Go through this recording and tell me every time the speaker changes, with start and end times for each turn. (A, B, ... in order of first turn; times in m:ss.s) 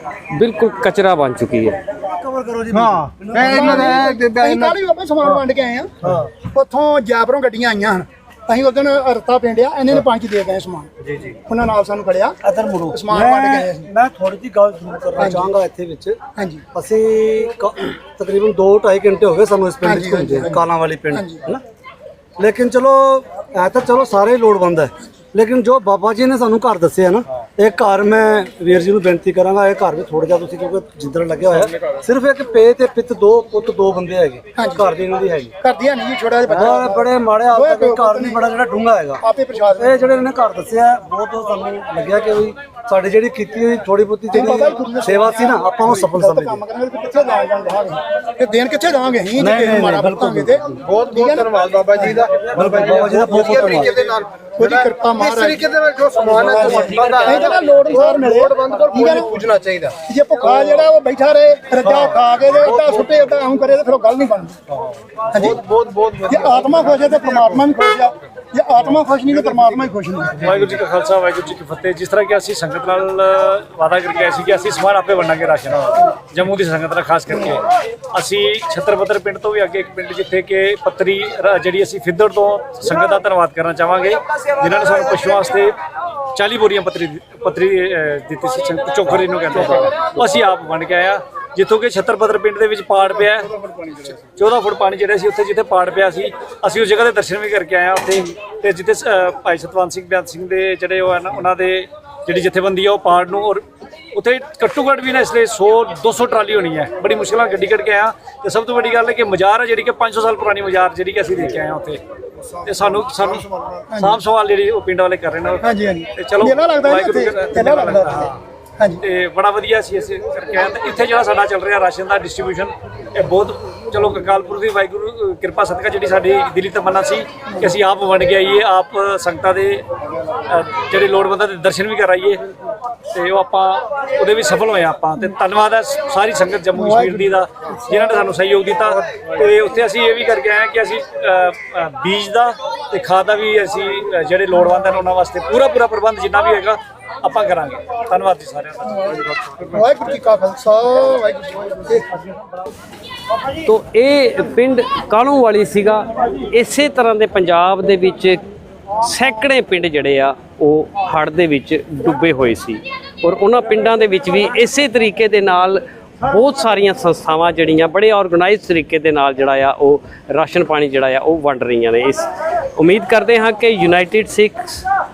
0:00.3-0:01.8 A
0:02.0-0:05.4 B
0:02.8-0:03.1 C
0:03.3-0:10.9 D
0:06.0-0:06.3 B
0:11.4-0:12.4 D
0:12.4-0:16.2 B
0:12.9-0:13.9 D
0:15.2-0:15.5 D
0:16.4-0:16.6 D
0:16.7-0:21.6 B
0:19.8-0:21.4 D
0:22.4-0:35.5 B
0:34.6-0:34.9 D
0:35.6-0:38.4 D
0:36.5-0:39.2 B
0:39.2-0:40.0 D
0:39.8-0:46.6 B
0:44.3-0:52.2 D
0:49.4-0:50.8 B
0:50.9-0:57.4 C
0:52.3-0:54.2 B
0:53.4-0:53.9 D
0:54.6-0:55.7 D
0:56.2-0:59.4 D
0:56.6-0:59.8 B
0:58.2-0:59.9 C
1:00.0-1:04.6 D
1:02.6-1:03.1 B
1:05.3-1:05.6 D
1:05.5-1:05.8 B
1:05.7-1:07.5 C
1:06.3-1:10.5 D
1:10.4-1:25.7 E
1:26.4-1:33.5 E
1:34.2-1:52.0 E
1:52.7-1:55.6 E
1:53.9-1:54.2 D
1:55.6-1:58.2 D
1:56.2-1:58.4 E
1:59.0-2:09.8 E
2:10.5-2:12.4 E
2:13.1-2:29.1 E
2:16.8-2:18.1 D
2:29.6-2:32.1 D
2:33.6-2:38.4 A
2:39.0-2:54.8 A